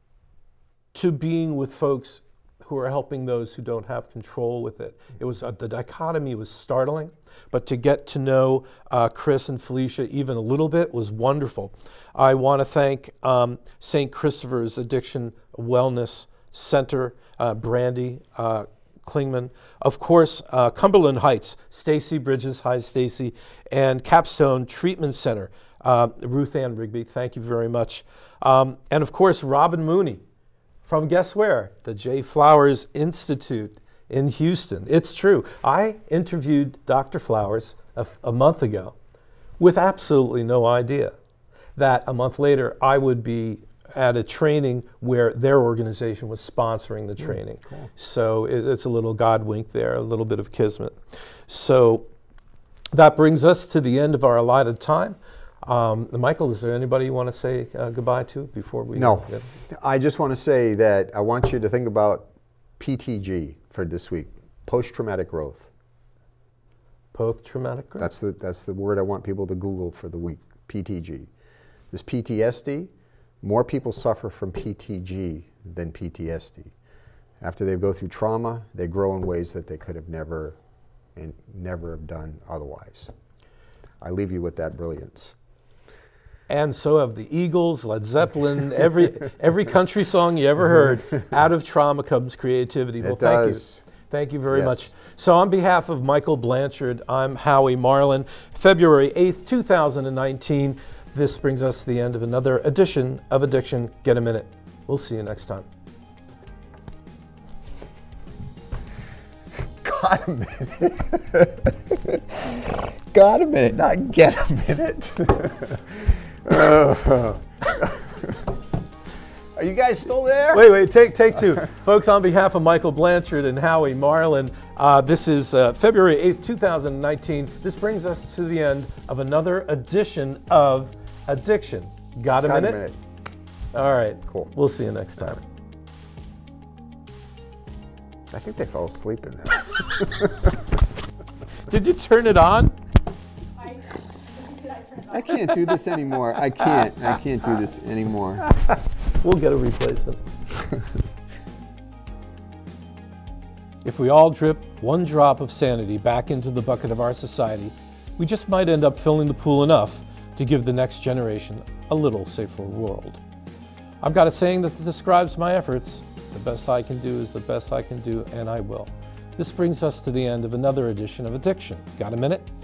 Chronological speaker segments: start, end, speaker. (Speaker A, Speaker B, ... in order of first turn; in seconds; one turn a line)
Speaker A: 0.9-30.2
Speaker A: 30.8-39.0
Speaker A: 39.6-41.1
Speaker A: 41.8-51.0
Speaker B: 47.6-47.9
Speaker A: 51.5-52.1
Speaker A: 52.9-59.6
Speaker B: 58.9-65.7
Speaker A: 67.1-68.1
Speaker B: 68.0-71.3
Speaker B: 71.9-72.9
Speaker B: 73.4-76.7
Speaker B: 77.4-80.6
Speaker B: 81.2-83.1
Speaker B: 84.0-85.3
Speaker A: 86.5-105.7
Speaker B: 93.0-93.8
Speaker B: 94.5-94.9
Speaker B: 109.8-118.5
Speaker B: 119.6-120.7
Speaker A: 120.5-132.8
Speaker B: 132.4-133.0
Speaker A: 133.7-135.4
Speaker B: 138.3-140.6
Speaker A: 141.7-142.7
Speaker B: 145.0-148.5
Speaker A: 149.1-150.2
Speaker A: 153.8-163.2
Speaker A: 164.0-172.5